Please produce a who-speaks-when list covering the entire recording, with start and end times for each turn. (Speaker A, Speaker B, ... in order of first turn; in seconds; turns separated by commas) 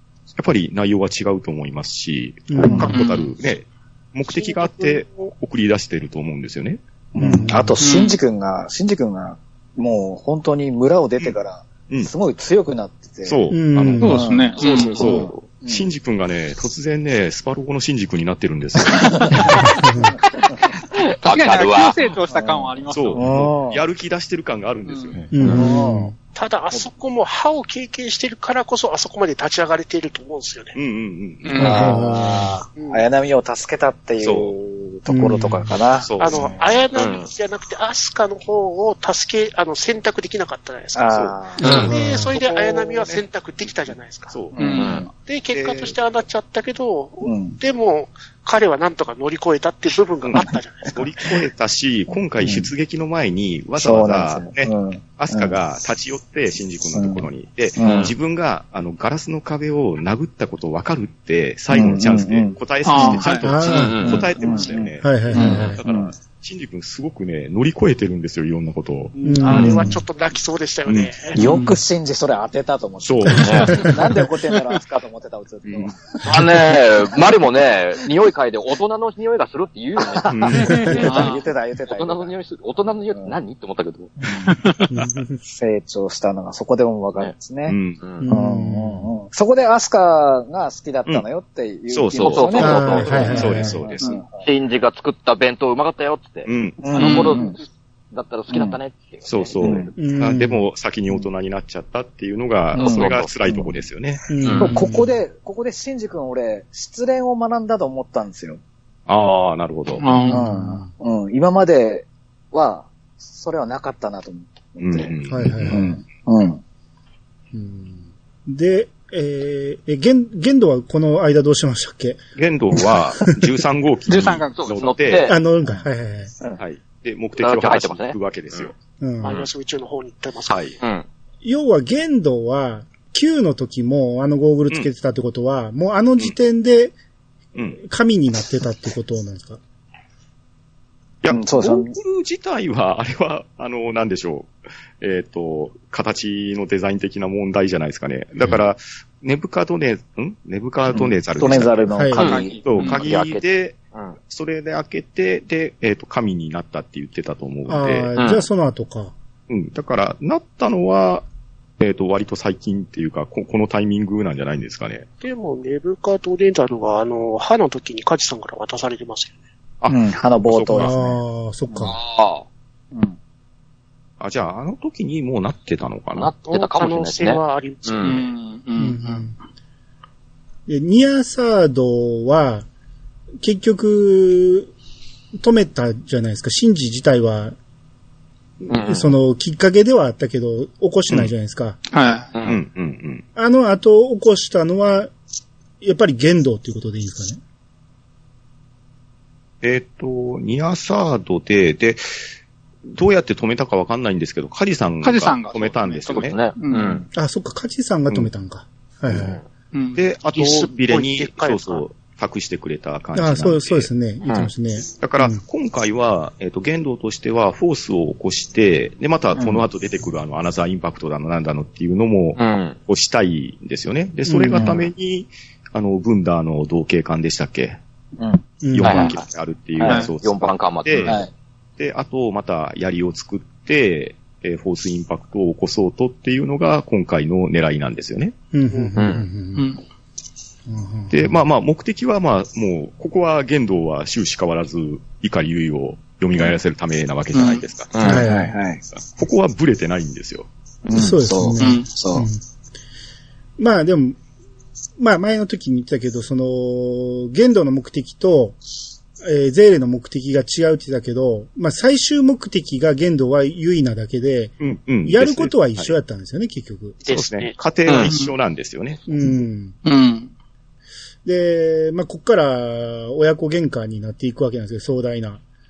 Speaker A: 0.3-6.8, Speaker B: 2.5-2.9, Speaker C: 2.6-2.9, Speaker D: 2.8-3.3, Speaker E: 4.3-5.1, Speaker C: 7.1-13.4, Speaker B: 7.2-7.8, Speaker D: 7.8-8.2, Speaker A: 13.2-19.6, Speaker B: 13.5-14.3, Speaker D: 14.0-15.2, Speaker C: 14.0-15.9, Speaker F: 14.6-15.2, Speaker C: 18.9-19.5, Speaker B: 19.8-20.1, Speaker F: 21.2-22.0, Speaker D: 21.2-23.5, Speaker C: 22.3-23.8, Speaker A: 22.9-25.3, Speaker D: 24.9-25.2, Speaker B: 25.3-26.1, Speaker F: 25.4-25.7, Speaker C: 25.4-26.1, Speaker E: 26.3-30.8, Speaker A: 30.7-31.8, Speaker D: 31.4-32.2, Speaker C: 31.6-36.6, Speaker F: 31.6-31.9, Speaker B: 31.7-32.5, Speaker E: 32.7-33.0, Speaker A: 34.2-34.5, Speaker B: 35.1-35.7, Speaker A: 36.0-36.5, Speaker E: 36.2-44.5, Speaker F: 36.9-37.3, Speaker C: 40.9-41.9, Speaker A: 41.1-43.2, Speaker B: 41.6-42.4, Speaker F: 41.6-41.9, Speaker A: 44.3-44.7, Speaker C: 44.5-45.1, Speaker D: 44.5-45.1, Speaker F: 44.7-45.1, Speaker E: 45.1-51.0, Speaker A: 45.5-45.9, Speaker C: 47.2-47.6, Speaker A: 50.3-69.1, Speaker C: 52.4-52.7, Speaker C: 53.8-55.5, Speaker C: 56.9-58.1, Speaker F: 57.8-58.1, Speaker C: 61.7-63.2, Speaker D: 62.8-64.6, Speaker B: 63.4-64.2, Speaker F: 63.7-64.3, Speaker C: 64.1-66.1, Speaker B: 65.0-65.8, Speaker D: 65.3-65.7, Speaker E: 69.2-71.4, Speaker B: 69.2-70.0, Speaker A: 70.8-71.1, Speaker D: 71.3-71.8, Speaker C: 71.3-76.5, Speaker A: 73.0-73.9, Speaker F: 73.3-73.8, Speaker B: 73.5-74.2, Speaker A: 75.7-75.9, Speaker F: 76.2-81.3, Speaker C: 80.0-82.3, Speaker A: 80.3-81.0, Speaker D: 80.9-81.4, Speaker F: 81.9-84.1, Speaker C: 83.1-83.4, Speaker C: 84.2-84.6, Speaker D: 84.5-84.8, Speaker B: 84.9-85.4, Speaker C: 85.4-87.8, Speaker A: 87.7-88.0, Speaker F: 88.0-88.3, Speaker B: 88.2-89.1, Speaker C: 88.3-94.4, Speaker A: 91.9-94.0, Speaker F: 92.2-93.7, Speaker B: 92.6-93.8, Speaker F: 94.4-97.6, Speaker A: 96.4-96.9, Speaker C: 96.8-97.6, Speaker D: 96.9-97.5, Speaker F: 98.1-99.9, Speaker C: 98.5-98.8, Speaker A: 99.2-104.2, Speaker C: 99.6-99.9, Speaker B: 100.0-100.6, Speaker C: 102.7-103.8, Speaker B: 104.3-105.2, Speaker F: 104.4-104.8, Speaker C: 104.5-108.6, Speaker A: 109.1-110.1, Speaker D: 110.0-110.5, Speaker C: 110.3-115.1, Speaker B: 110.3-110.9, Speaker A: 114.8-115.9, Speaker B: 115.3-116.0, Speaker C: 115.7-116.6, Speaker B: 117.5-122.2, Speaker A: 122.3-125.3, Speaker D: 124.0-124.8, Speaker F: 124.5-125.4, Speaker B: 125.2-126.3, Speaker A: 126.6-128.7, Speaker F: 127.4-128.7, Speaker B: 129.0-129.4, Speaker E: 129.2-130.7, Speaker A: 130.5-130.8, Speaker F: 130.8-131.1, Speaker B: 131.4-136.9, Speaker A: 137.5-137.8, Speaker B: 137.8-139.6, Speaker A: 141.2-151.9, Speaker C: 141.3-141.9, Speaker C: 151.3-152.6, Speaker B: 151.9-152.2, Speaker F: 152.1-154.2, Speaker D: 152.2-152.9, Speaker A: 152.6-158.1, Speaker B: 157.7-159.1, Speaker F: 158.1-158.4, Speaker A: 159.5-161.2, Speaker A: 161.8-165.1, Speaker E: 165.2-169.4, Speaker A: 169.8-171.0, Speaker C: 169.9-171.1, Speaker B: 170.7-171.9, Speaker F: 171.8-172.4, Speaker C: 172.9-173.2, Speaker A: 174.2-176.3, Speaker F: 176.1-178.2, Speaker E: 176.4-178.2, Speaker D: 178.0-179.3, Speaker B: 178.8-179.3, Speaker B: 180.7-182.7, Speaker B: 183.4-184.7, Speaker B: 185.4-187.6, Speaker B: 188.7-191.8, Speaker F: 188.7-189.1, Speaker D: 191.9-192.3, Speaker F: 192.3-192.6, Speaker A: 192.4-193.2, Speaker B: 193.3-195.1, Speaker B: 195.8-197.4, Speaker A: 199.6-202.0, Speaker A: 202.9-206.4, Speaker D: 205.0-207.0, Speaker F: 206.1-207.1, Speaker B: 207.1-209.4, Speaker D: 209.7-210.0, Speaker A: 209.9-213.9, Speaker E: 210.2-211.8, Speaker B: 213.1-215.4, Speaker F: 214.2-214.5, Speaker A: 215.0-227.8, Speaker C: 219.3-219.7, Speaker F: 222.3-222.8, Speaker B: 224.2-224.7, Speaker C: 224.5-224.8, Speaker C: 228.2-228.4, Speaker B: 228.6-229.1, Speaker A: 228.7-231.2, Speaker F: 228.8-229.2, Speaker F: 229.8-231.2, Speaker A: 231.8-238.3, Speaker B: 238.5-239.7, Speaker F: 238.9-239.2, Speaker D: 239.5-239.8, Speaker B: 240.7-241.4, Speaker A: 241.1-247.9, Speaker D: 247.3-247.6, Speaker F: 247.9-248.2, Speaker B: 248.0-248.5, Speaker C: 248.0-248.8, Speaker A: 249.0-250.5, Speaker C: 250.8-252.3, Speaker B: 250.9-252.4, Speaker D: 251.6-251.9, Speaker B: 253.6-254.2, Speaker B: 255.0-258.6, Speaker B: 259.2-267.0, Speaker A: 264.6-265.9, Speaker E: 267.0-267.5, Speaker A: 267.1-269.0, Speaker F: 267.8-268.1, Speaker D: 268.1-268.3, Speaker B: 269.1-269.8, Speaker D: 269.8-270.3, Speaker B: 271.2-275.4